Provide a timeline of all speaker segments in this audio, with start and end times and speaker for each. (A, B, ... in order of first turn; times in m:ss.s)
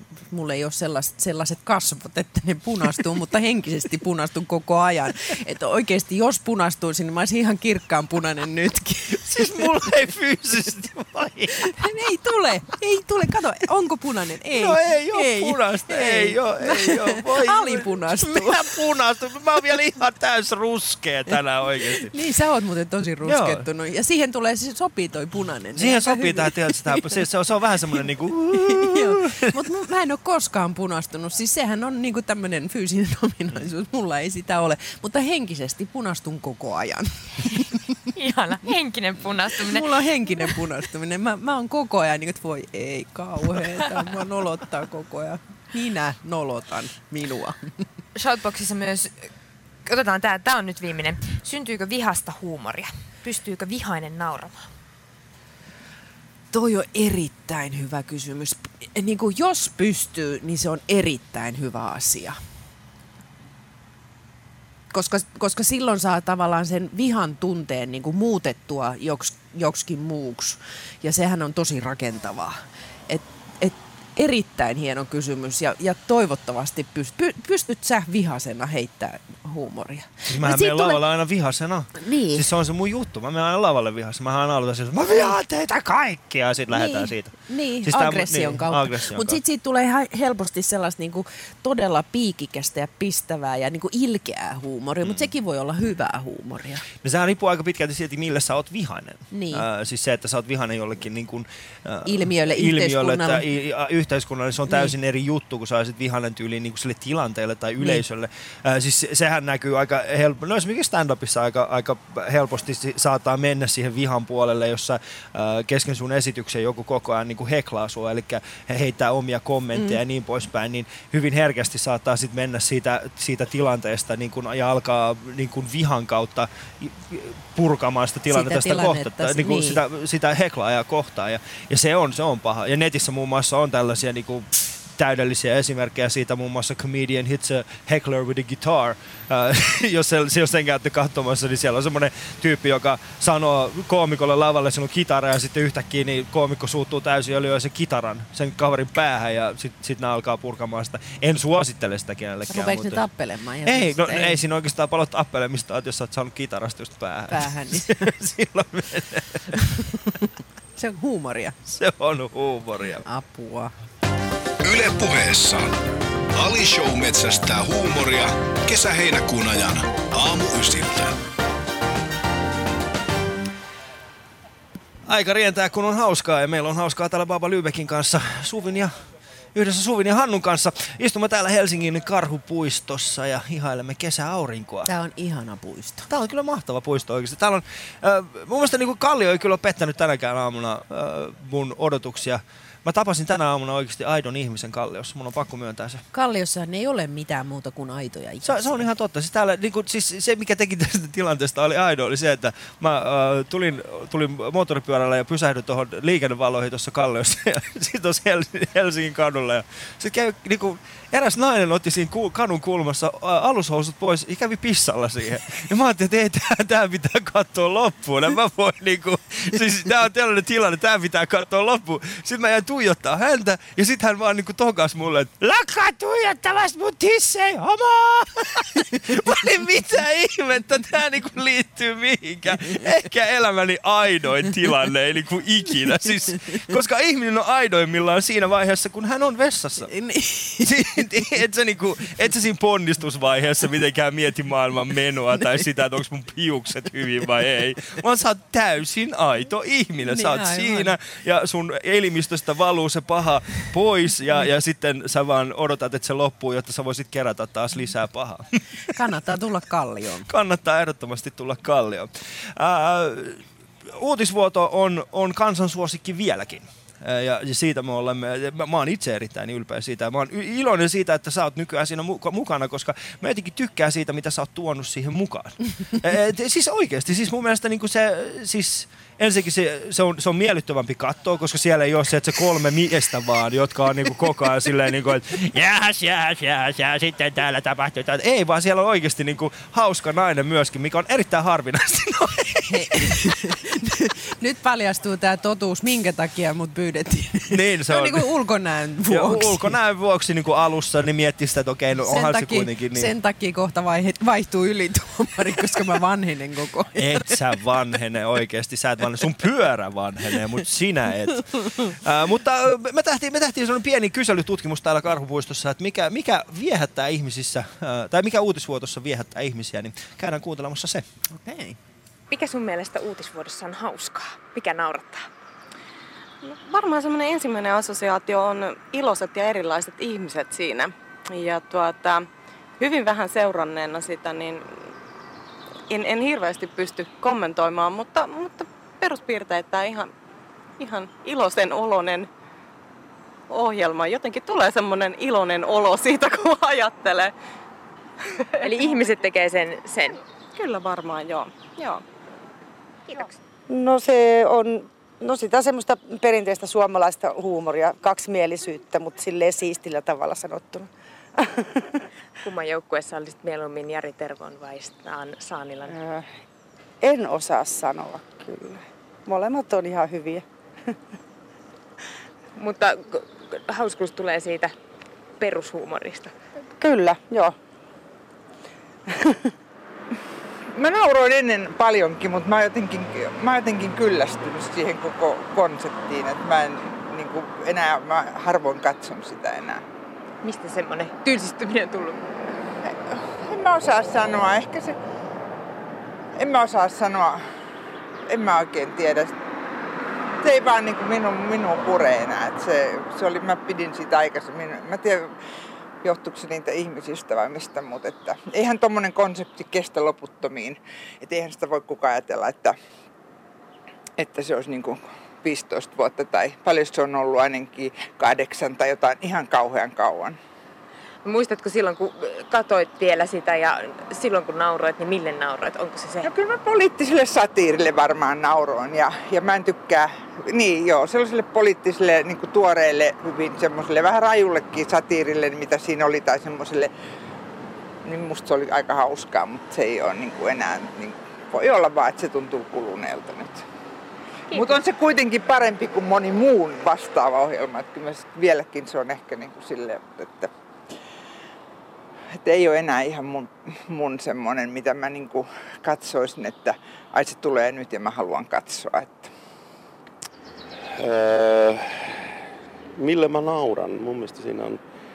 0:00.3-0:09.6 A
0:09.1-0:11.8 B
0:11.8-0:18.7 A
0:14.5-0:22.1 B
0:22.0-0:27.1 A
0:23.2-0:23.6 B
0:25.8-0:29.5 B
0:28.5-0:38.0 A
0:38.1-0:39.9 C
0:39.6-0:47.7 A
0:48.2-0:49.3 C
0:49.8-0:54.7 C
0:56.5-1:02.4 A
1:04.9-1:21.0 A
1:20.3-1:29.4 B
1:22.0-1:22.5 A
1:26.7-1:36.8 A
1:35.0-1:35.3 B
1:37.0-2:33.0 B
1:39.3-1:39.6 A
1:42.0-1:43.4 A
2:08.3-2:09.8 A
2:32.5-2:34.4 A
2:33.6-2:39.7 B
2:37.3-2:38.1 A
2:39.5-2:41.6 A
2:41.7-2:43.0 B
2:43.0-2:43.7 A
2:44.6-2:45.7 D
2:46.3-2:51.1 D
2:55.1-2:59.0 B
2:59.5-3:04.9 B
3:04.8-3:06.1 A
3:06.1-3:16.0 B
3:16.1-3:18.8 A
3:18.4-3:59.9 B
3:59.9-4:01.0 A
4:00.6-4:18.5 B
4:10.1-4:10.9 A
4:18.9-4:20.3 A
4:20.3-4:53.3 B
4:52.7-4:59.8 A
4:57.5-4:58.2 B
4:59.1-5:03.1 B
5:02.0-5:07.4 A
5:07.0-5:21.0 B
5:21.3-5:21.8 A
5:22.3-5:25.3 C
5:26.4-5:32.3 E
5:32.8-5:34.6 E
5:35.9-5:40.1 E
5:40.8-5:42.3 E
5:43.5-5:47.3 E
5:48.6-5:48.8 E
5:48.6-5:50.2 C
5:50.5-5:52.0 E
5:53.7-6:01.8 F
6:02.4-6:06.0 C
6:05.8-6:06.2 F
6:07.0-6:10.4 F
6:12.6-6:14.7 C
6:15.4-6:16.3 C
6:16.8-6:17.5 F
6:20.8-6:29.8 G
6:30.4-6:32.2 C
6:33.1-6:35.0 G
6:36.4-6:37.4 G
6:38.3-6:39.3 G
6:40.4-6:45.3 G
6:46.0-6:52.8 G
6:54.2-7:00.4 G
7:01.2-7:06.3 C
7:06.2-7:16.9 G
7:18.0-7:23.6 G
7:24.5-7:30.5 G
7:32.4-7:39.3 G
7:40.9-7:42.3 H
7:43.0-7:44.8 H